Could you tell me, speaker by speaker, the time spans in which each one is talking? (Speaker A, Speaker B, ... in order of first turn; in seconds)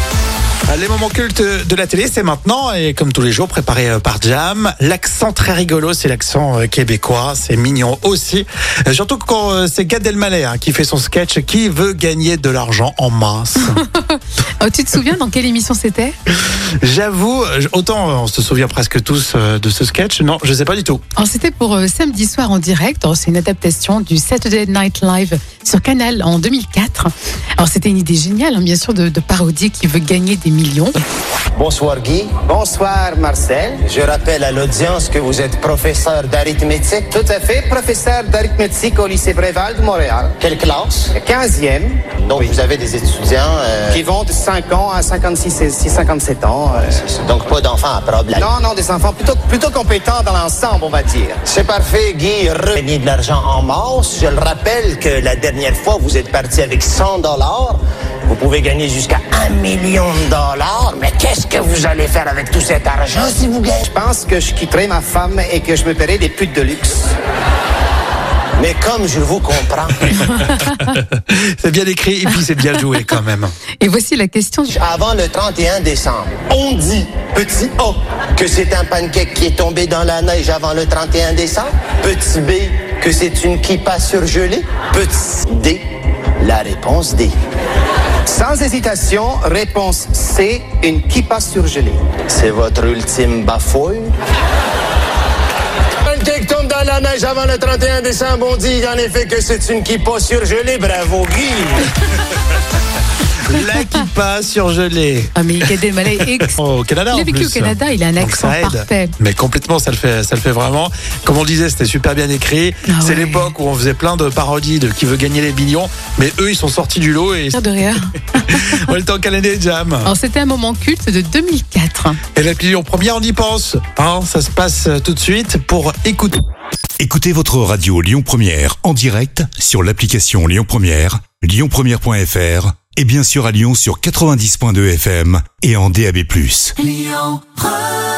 Speaker A: 0.7-13.8, 16.5-21.0, 70.4-73.5, 103.4-117.6, 118.3-120.1, 122.3-126.4
Speaker B: 13.7-16.1, 21.1-31.0, 73.8-74.8, 105.3-106.5, 107.1-109.1, 112.9-113.5, 117.5-118.9, 120.0-122.2
Speaker C: 31.5-32.4, 33.8-37.1, 40.4-41.1, 42.2-44.0, 47.0-48.5, 51.5-63.9, 68.6-70.3, 74.7-85.8, 86.4-87.3, 92.2-94.1, 96.0-101.9
Speaker D: 32.5-33.8, 37.1-40.4, 41.1-42.6, 43.9-47.0, 48.3-51.4, 63.9-67.1, 88.3-92.1
Speaker E: 127.0-136.8